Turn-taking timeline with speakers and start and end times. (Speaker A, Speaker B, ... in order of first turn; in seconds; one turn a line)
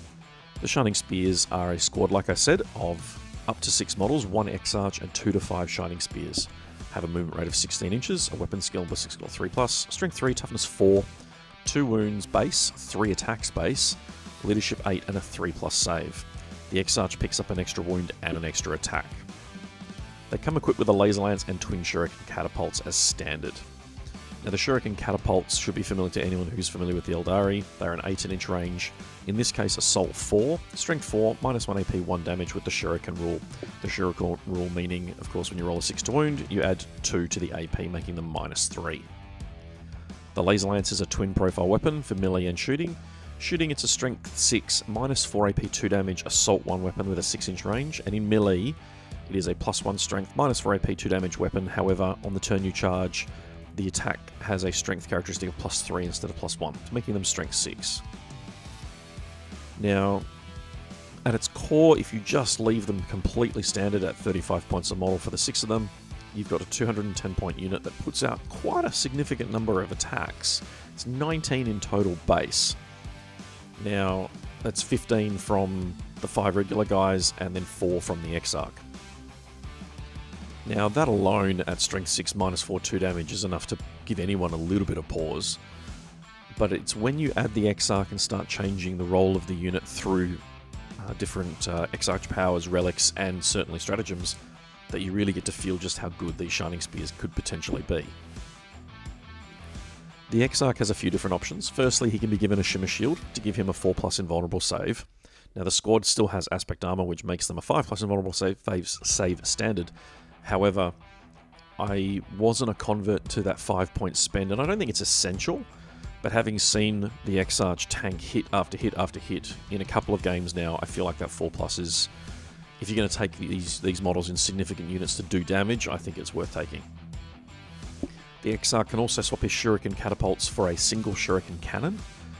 Speaker A: 0.6-11.1
Speaker A: 11.7-19.3
Speaker A: 20.3-23.6
Speaker A: 24.4-39.1
Speaker A: 40.4-58.0
Speaker A: 59.8-60.3
Speaker A: 61.3-72.8
Speaker A: 73.8-78.8
Speaker A: 80.7-85.6
Speaker A: 86.5-90.4
Speaker A: 91.0-94.4
Speaker A: 94.9-98.2
Speaker A: 100.3-109.9
Speaker A: 110.4-110.9
Speaker A: 111.8-115.7
Speaker A: 116.2-122.1
Speaker A: 122.8-126.9
Speaker A: 128.4-132.0